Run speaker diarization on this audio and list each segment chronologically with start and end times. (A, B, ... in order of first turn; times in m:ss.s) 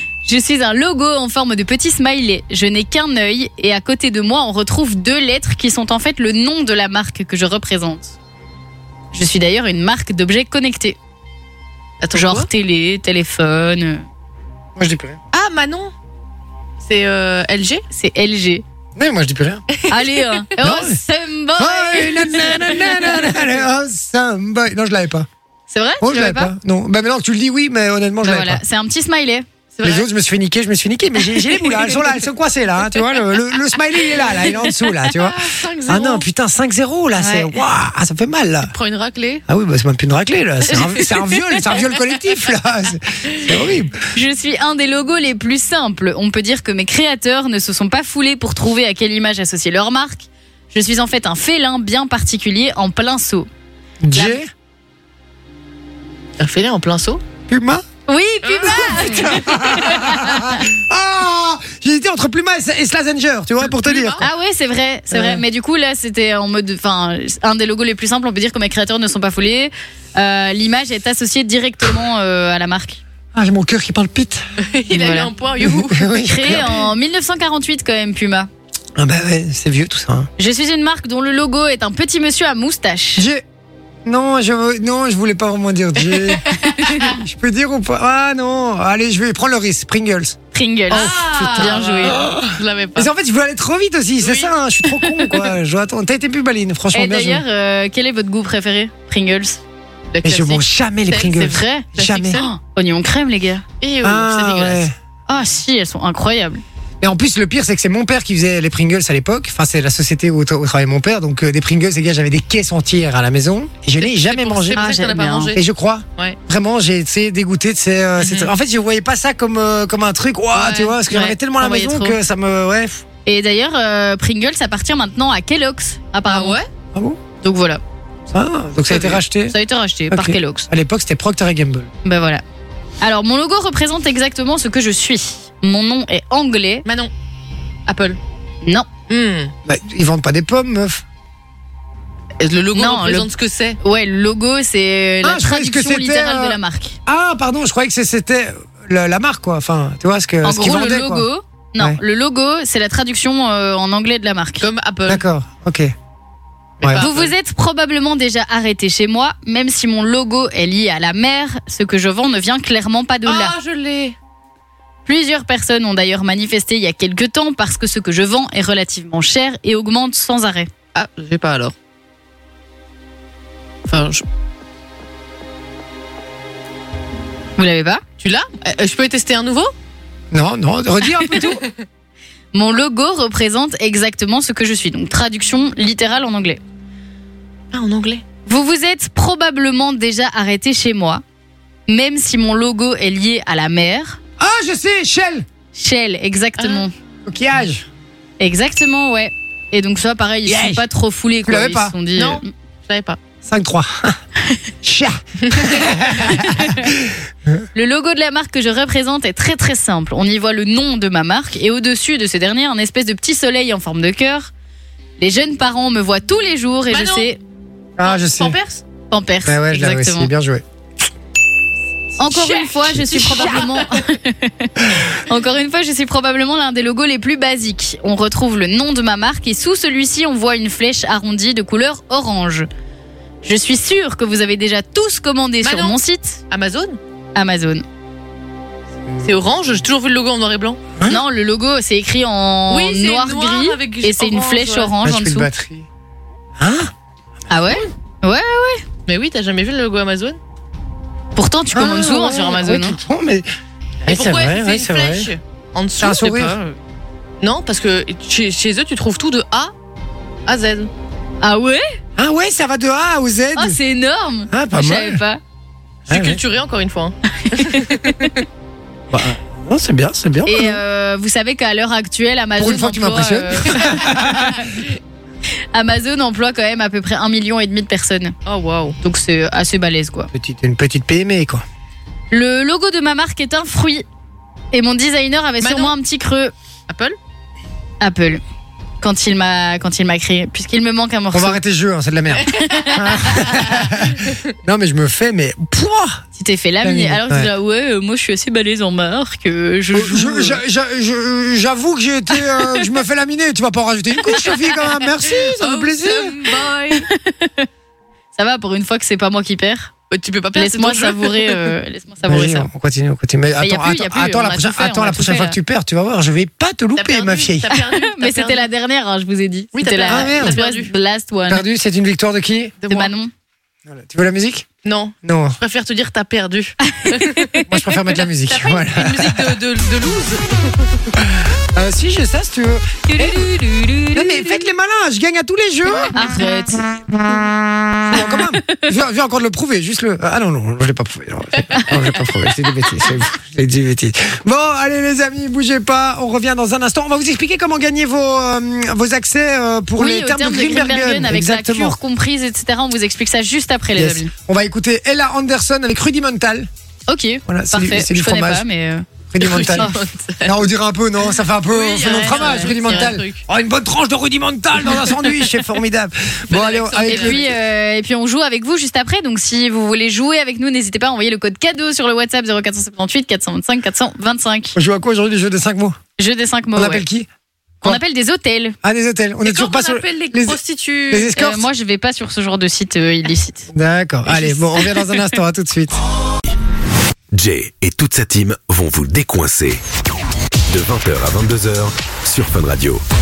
0:00.2-0:08.1 A
0:09.1-0:11.0 A
0:12.0-0:12.5 B
0:12.1-0:14.0 A
0:14.8-0:15.2 C
0:15.3-0:15.9 B
0:16.8-0:17.8 B
0:17.9-0:18.6 A
0:19.0-0:19.6 C
0:19.7-0:20.4 B
0:19.9-0:23.4 A
0:20.6-0:21.0 C
0:21.6-0:25.3 C
0:25.7-0:26.5 A
0:26.0-0:28.6 C
0:28.2-0:29.5 A
0:29.8-0:30.1 B
0:29.8-0:38.7 C
0:31.6-0:32.2 B
0:34.3-0:36.3 B
0:37.2-0:37.6 A
0:38.7-0:39.4 B
0:39.5-0:44.0 C
0:40.7-0:41.2 B
0:44.2-0:53.5 A
0:54.0-0:54.5 C
0:54.1-0:54.4 A
0:56.4-0:57.2 B
0:57.5-0:57.8 C
0:58.1-1:00.6 A
0:58.4-0:59.3 B
0:58.7-1:04.2 C
1:03.8-1:04.3 B
1:04.2-1:13.0 A
1:05.1-1:05.4 C
1:13.3-1:14.4 C
1:14.6-1:16.1 B
1:14.9-1:15.3 A
1:15.6-1:16.7 C
1:16.2-1:18.5 A
1:19.0-1:20.3 C
1:20.4-1:23.3 A
1:23.2-1:23.4 C
1:24.0-1:26.4 C
1:26.8-1:27.1 A
1:27.0-1:30.4 C
1:30.5-1:32.2 A
1:30.9-1:33.1 B
1:30.9-1:37.4 C
1:34.2-1:34.5 B
1:36.9-1:39.6 A
1:40.1-1:42.5 B
1:40.2-1:42.4 C
1:41.3-1:43.6 A
1:43.8-1:44.9 B
1:44.0-1:44.9 C
1:45.3-1:46.6 A
1:47.0-1:54.8 C
1:54.0-1:55.6 B
1:54.8-1:55.5 A
1:55.5-2:03.0 C
1:58.2-1:58.5 B
2:00.6-2:01.3 B
2:01.5-2:02.2 A
2:03.3-2:06.6 A
2:06.3-2:06.7 B
2:06.9-2:07.2 C
2:07.4-2:07.8 A
2:08.3-2:09.6 C
2:08.9-2:09.2 B
2:09.5-2:10.7 A
2:10.1-2:11.9 C
2:12.0-2:12.4 A
2:13.0-2:16.8 A
2:16.9-2:17.1 B
2:17.9-2:18.2 B
2:19.1-2:19.5 B
2:19.7-2:21.0 C
2:22.4-2:23.8 B
2:22.8-2:23.3 A
2:23.8-2:27.0 A
2:25.2-2:31.3 C
2:30.4-2:34.6 A
2:34.6-2:35.2 B
2:35.1-2:35.9 C
2:36.8-2:37.3 B
2:36.8-2:37.1 C
2:37.0-2:43.6 A
2:43.3-2:44.2 B
2:45.1-2:50.7 A
2:50.9-2:51.7 B
2:53.9-2:54.2 B
2:57.6-2:58.0 A
2:58.2-2:59.7 B
3:00.3-3:01.6 C
3:02.5-3:06.6 A
3:07.7-3:08.2 B
3:08.5-3:11.2 A
3:11.9-3:14.2 A
3:14.4-3:15.5 C
3:15.8-3:16.9 A
3:16.6-3:16.8 B
3:17.3-3:17.9 C
3:18.4-3:22.5 A
3:20.5-3:20.8 C
3:21.4-3:21.9 C
3:22.2-3:23.2 B
3:23.4-3:24.2 C
3:24.8-3:27.7 C
3:26.3-3:26.9 A
3:27.8-3:34.5 A
3:35.2-3:37.4 A
3:36.9-3:37.3 B
3:38.0-3:38.6 C
3:38.0-3:38.8 B
3:39.1-3:40.3 A
3:39.4-3:40.6 C
3:42.2-3:52.7 A
3:42.3-3:44.1 B
3:42.9-3:43.6 C
3:53.4-3:56.4 A
3:55.6-3:56.0 B
3:56.5-3:57.0 B
3:57.4-3:57.8 A
3:59.2-4:00.8 B
4:01.0-4:01.2 C
4:01.1-4:05.5 A
4:02.7-4:04.9 B
4:05.0-4:05.9 C
4:06.6-4:06.9 C
4:07.5-4:08.8 A
4:09.1-4:10.4 B
4:11.4-4:13.0 A
4:11.7-4:13.5 C
4:14.0-4:15.3 C
4:14.1-4:16.8 B
4:16.0-4:16.6 C
4:17.4-4:19.7 B
4:20.5-4:20.9 B
4:21.4-4:22.0 A
4:22.2-4:23.8 C
4:23.6-4:25.4 A
4:24.5-4:25.2 C
4:26.1-4:26.4 C
4:26.1-4:28.4 B
4:27.4-4:28.3 A
4:29.1-4:30.8 C
4:30.5-4:34.7 A
4:32.6-4:34.6 C
4:35.7-4:38.4 A
4:38.5-4:39.0 B
4:39.0-4:40.3 A
4:40.3-4:41.6 C
4:42.3-4:44.0 A
4:44.7-4:46.5 A
4:45.6-4:46.0 B
4:46.9-4:47.2 B
4:48.0-4:48.4 A
4:49.0-4:51.6 A
4:51.3-4:56.2 C
4:52.5-4:53.5 A
4:56.4-5:00.6 A
4:56.8-4:57.5 C
4:59.9-5:06.4 C
5:05.2-5:07.1 B
5:06.9-5:07.7 A
5:08.4-5:09.9 A
5:10.1-5:11.8 B
5:10.6-5:12.7 A
5:12.3-5:17.7 C
5:13.6-5:15.6 A
5:17.0-5:18.7 B
5:17.7-5:21.6 A
5:19.7-5:20.9 B
5:20.1-5:20.6 C
5:21.5-5:22.7 C
5:22.8-5:23.1 B
5:22.9-5:23.3 A
5:23.9-5:24.7 C
5:24.8-5:27.6 B
5:25.2-5:25.6 C
5:26.9-5:27.6 A
5:27.7-5:29.6 C
5:28.3-5:31.1 B
5:31.2-5:33.5 C
5:33.1-5:34.6 A
5:34.1-5:36.2 C
5:36.1-5:37.0 A
5:37.9-5:52.0 C
5:38.1-5:38.8 A
5:50.0-5:54.3 A
5:54.0-5:56.7 C
5:57.1-5:59.1 A
5:57.5-5:58.6 C
5:59.3-5:59.9 C
5:59.4-6:00.6 B
5:59.6-6:00.0 A
6:00.4-6:07.6 C
6:01.7-6:03.4 B
6:02.0-6:03.1 A
6:06.5-6:07.4 B
6:07.0-6:14.8 A
6:14.8-6:16.0 C
6:16.2-6:17.1 A
6:16.8-6:17.3 C
6:17.8-6:18.8 A
6:18.8-6:20.6 C
6:19.4-6:21.3 B
6:21.1-6:21.7 C
6:21.4-6:23.7 A
6:23.7-6:26.0 C
6:24.3-6:24.6 A
6:27.3-6:29.8 D
6:30.7-6:33.0 D